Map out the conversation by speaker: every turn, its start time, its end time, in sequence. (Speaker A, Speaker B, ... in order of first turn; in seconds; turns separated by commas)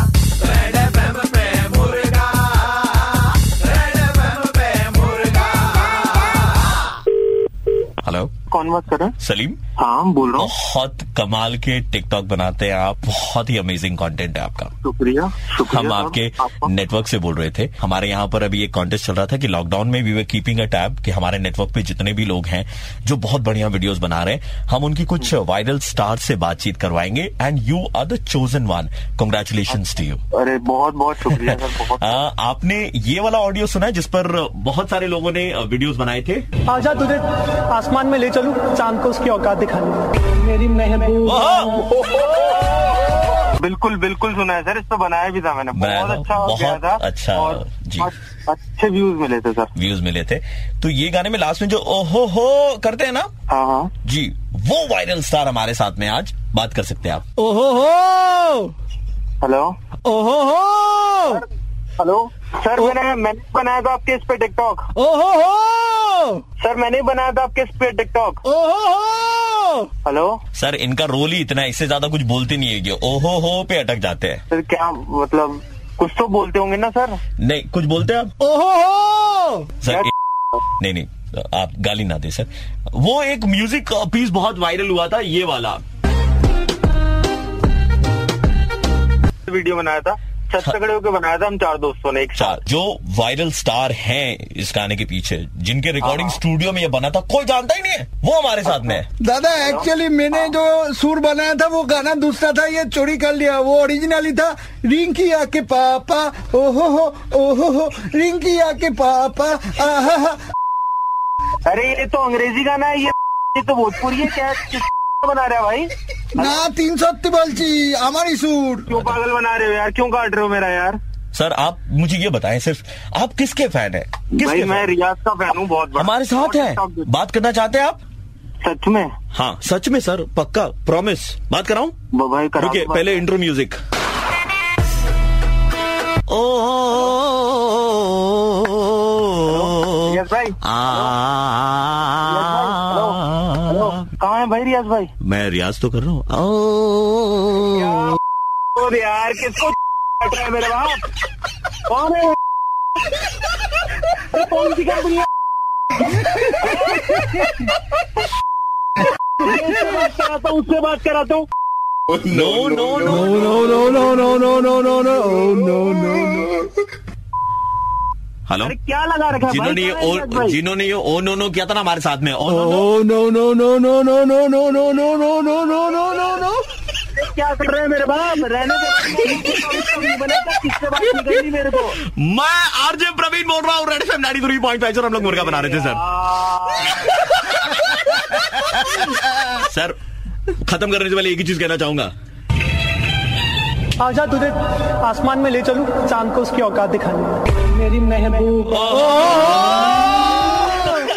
Speaker A: 0.7-2.4, Speaker A: 4.0-5.4, Speaker A: 8.0-8.3, Speaker B: 8.5-9.1, Speaker A: 9.2-9.6, Speaker B: 9.8-10.5, Speaker A: 10.4-14.7, Speaker B: 14.8-16.7, Speaker A: 15.7-30.2, Speaker B: 30.3-32.2, Speaker A: 31.3-36.4, Speaker C: 36.7-41.9, Speaker A: 41.3-41.8, Speaker B: 43.5-49.7, Speaker A: 45.7-48.1, Speaker A: 49.7-53.3, Speaker B: 53.5-53.9, Speaker A: 54.0-57.2, Speaker D: 57.4-58.7, Speaker B: 59.4-59.8, Speaker D: 60.0-61.4, Speaker B: 62.0-64.9, Speaker D: 65.0-66.4, Speaker B: 66.6-68.4, Speaker D: 68.5-69.9, Speaker B: 70.0-70.4, Speaker A: 70.5-74.4, Speaker B: 74.5-77.2, Speaker A: 77.4-78.3, Speaker D: 78.4-79.7, Speaker A: 79.8-80.1, Speaker A: 80.8-85.8, Speaker B: 89.5-92.6, Speaker A: 92.4-99.1, Speaker B: 96.0-96.4, Speaker D: 99.2-110.4, Speaker B: 99.6-100.5, Speaker B: 111.7-116.6, Speaker D: 116.3-118.9, Speaker B: 118.9-121.0, Speaker A: 118.9-119.2, Speaker A: 121.3-124.9, Speaker B: 124.3-127.1, Speaker A: 126.0-128.0, Speaker B: 128.6-129.1, Speaker A: 129.3-131.9, Speaker B: 132.1-133.2, Speaker A: 132.6-133.8, Speaker A: 136.3-144.1, Speaker B: 139.4-141.1, Speaker B: 142.2-145.1, Speaker A: 145.2-148.2, Speaker B: 147.7-148.2, Speaker B: 148.7-151.0, Speaker B: 151.9-152.4, Speaker B: 154.2-155.3, Speaker B: 156.6-157.5, Speaker B: 159.4-161.4, Speaker A: 162.1-164.0, Speaker D: 163.3-166.5, Speaker A: 168.5-168.7, Speaker B: 168.6-170.6, Speaker A: 169.4-172.9, Speaker D: 172.9-176.6, Speaker B: 177.2-181.9, Speaker A: 182.0-186.0, Speaker B: 185.2-187.0, Speaker A: 186.9-190.0, Speaker A: 190.6-192.1, Speaker C: 194.0-200.0